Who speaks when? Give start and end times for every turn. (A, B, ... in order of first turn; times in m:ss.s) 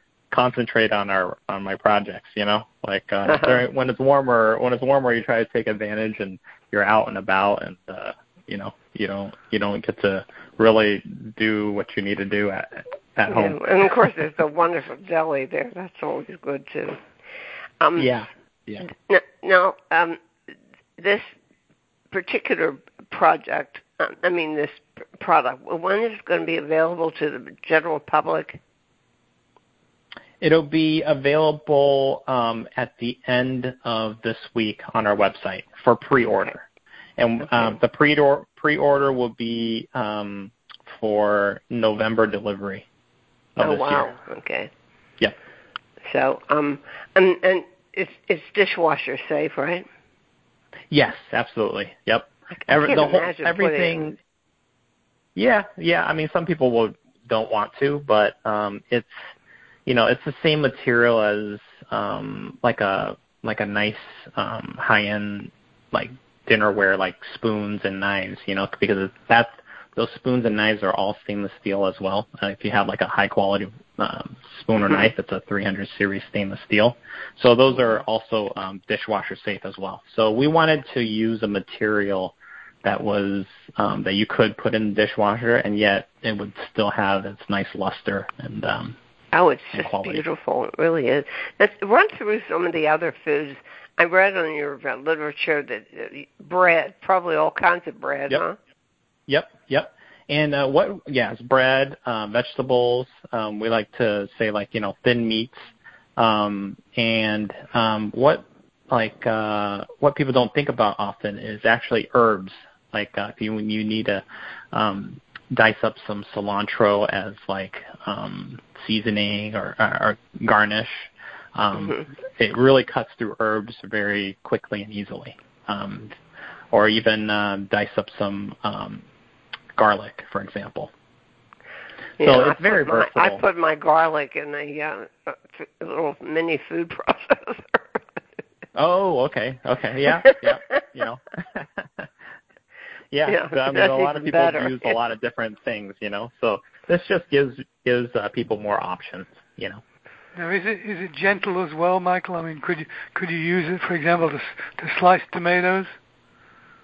0:00.3-0:13.6 A
0:03.3-0:03.6 B
0:13.3-0:17.0 B
0:17.8-0:18.2 B
0:18.0-0:18.9 A
0:18.8-0:20.2 B
0:21.0-0:21.3 B
0:22.1-0:28.6 B
0:30.4-0:36.6 A
0:37.2-0:42.8 A
0:43.6-0:44.1 A
0:43.6-0:44.7 B
0:46.0-0:49.8 B
0:50.9-0:54.2 A
0:52.5-0:54.0 B
0:55.4-0:59.1 A
0:59.8-1:29.0 A
1:29.3-1:38.6 B
1:29.7-1:30.2 A
1:39.3-2:06.1 A
2:01.8-2:02.0 B
2:06.7-2:09.0 A
2:09.8-2:10.9 A
2:12.2-2:18.2 B
2:12.2-2:13.4 A
2:18.8-2:22.1 A
2:20.2-2:20.6 B
2:23.1-2:29.8 A
2:23.2-2:25.0 B
2:30.3-2:35.9 C